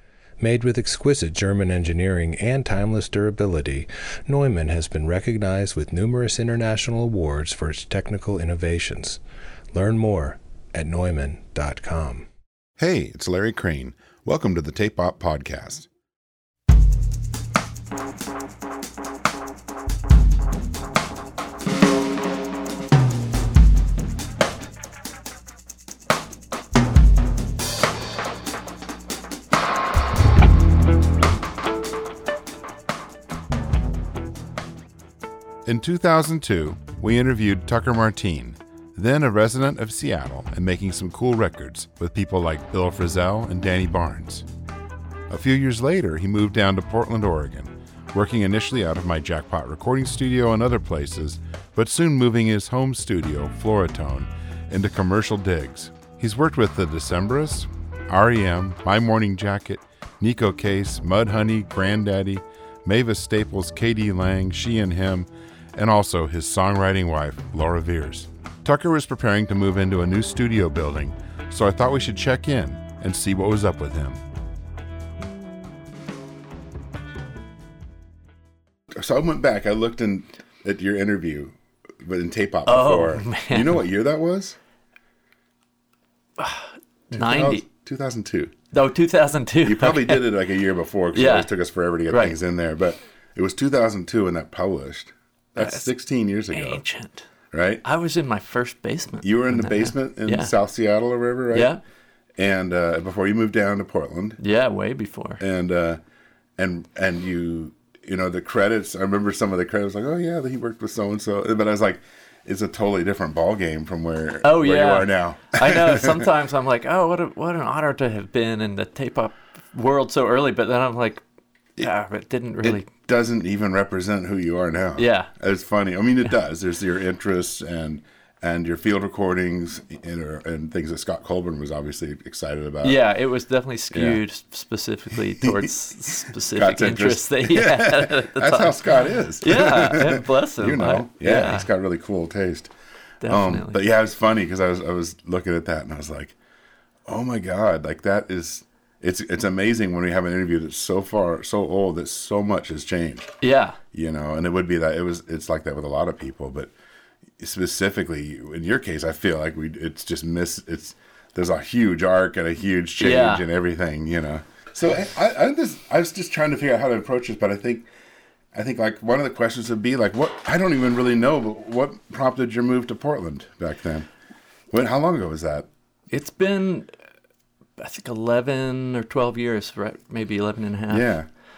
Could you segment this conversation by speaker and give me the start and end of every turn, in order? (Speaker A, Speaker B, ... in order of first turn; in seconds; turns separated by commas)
Speaker A: 0.4-9.2, Speaker A: 9.7-12.3, Speaker B: 12.8-15.9, Speaker B: 35.7-44.5, Speaker B: 45.3-74.2, Speaker B: 78.9-84.6, Speaker C: 82.7-83.8, Speaker C: 86.4-87.7, Speaker B: 87.1-88.6, Speaker C: 88.7-90.2, Speaker B: 89.6-96.8, Speaker C: 91.1-91.5, Speaker C: 92.1-92.4, Speaker C: 95.6-95.9, Speaker C: 96.5-97.2, Speaker B: 97.5-97.8, Speaker C: 97.8-100.5, Speaker B: 99.2-101.7, Speaker C: 101.5-101.8, Speaker B: 102.4-104.4, Speaker C: 104.4-105.4, Speaker B: 105.4-106.0, Speaker B: 106.6-116.3, Speaker C: 114.4-121.2, Speaker C: 121.8-122.9, Speaker B: 122.6-133.0, Speaker C: 125.0-125.3, Speaker C: 132.8-138.9, Speaker B: 133.9-134.2, Speaker B: 135.4-135.7, Speaker B: 136.5-142.7, Speaker C: 139.4-141.7, Speaker C: 143.2-143.8, Speaker B: 143.3-146.4, Speaker B: 147.1-153.3, Speaker C: 153.4-153.8, Speaker B: 153.9-156.7, Speaker B: 157.4-167.9, Speaker C: 163.0-163.4, Speaker B: 168.5-174.1, Speaker B: 174.7-175.7, Speaker C: 176.1-176.9, Speaker C: 177.8-181.1, Speaker B: 180.9-181.3